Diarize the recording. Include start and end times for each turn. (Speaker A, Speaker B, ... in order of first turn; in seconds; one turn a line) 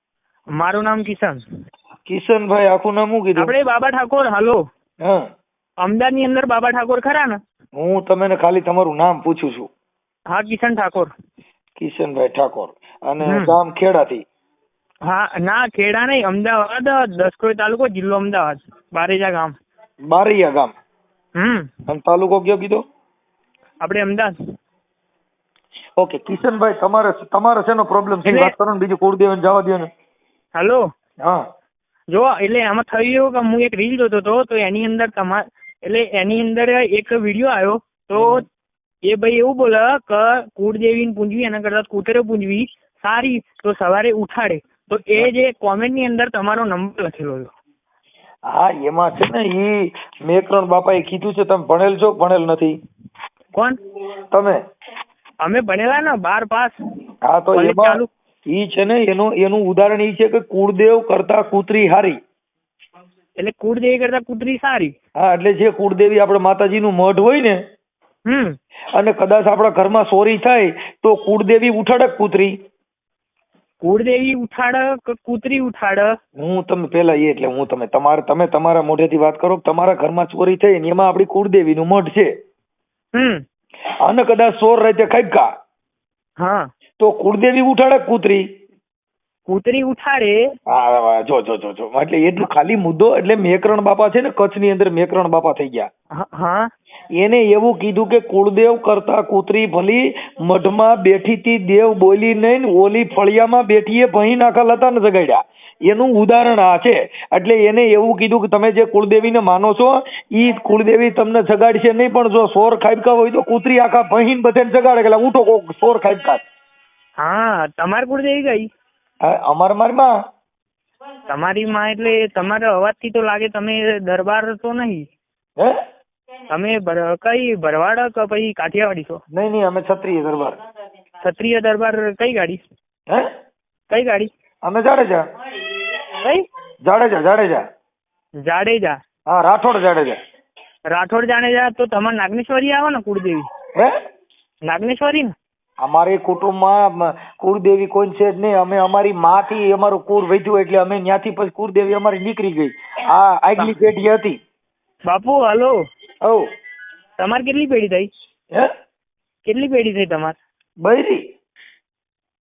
Speaker A: 0.6-1.4
Speaker B: 2.1-3.5
Speaker A: 3.4-4.6
Speaker A: 5.8-7.4
Speaker B: 7.8-9.7
Speaker A: 10.3-11.1
Speaker B: 11.8-14.2
Speaker A: 13.2-13.6
Speaker A: 15.1-19.5
Speaker B: 20.1-20.7
Speaker A: 21.4-21.7
Speaker B: 21.9-22.8
Speaker A: 23.8-24.3
Speaker B: 26.0-29.9
Speaker A: 28.2-28.5
Speaker A: 30.6-30.8
Speaker A: 32.1-38.4
Speaker B: 38.1-38.4
Speaker A: 39.1-47.5
Speaker B: 48.5-52.7
Speaker B: 54.3-54.6
Speaker A: 55.4-56.7
Speaker B: 57.3-62.2
Speaker A: 57.5-58.1
Speaker A: 63.4-64.9
Speaker B: 65.2-67.6
Speaker A: 68.3-68.6
Speaker B: 68.9-72.5
Speaker A: 73.8-76.2
Speaker B: 76.4-82.3
Speaker A: 83.1-83.4
Speaker B: 84.0-85.5
Speaker A: 86.4-86.7
Speaker B: 87.0-88.4
Speaker A: 89.5-90.4
Speaker B: 90.7-95.9
Speaker A: 96.2-96.7
Speaker B: 97.2-116.4
Speaker A: 117.2-118.7
Speaker B: 119.2-120.1
Speaker A: 121.3-125.1
Speaker A: 126.5-129.2
Speaker B: 129.3-130.6
Speaker A: 131.2-132.6
Speaker A: 133.9-134.3
Speaker B: 134.6-135.2
Speaker B: 136.8-137.6
Speaker A: 138.4-139.0
Speaker B: 139.3-140.2
Speaker A: 140.9-143.5
Speaker A: 144.7-145.3
Speaker B: 145.8-154.4
Speaker A: 155.1-155.7
Speaker A: 157.2-158.1
Speaker A: 159.4-160.3
Speaker B: 160.8-161.2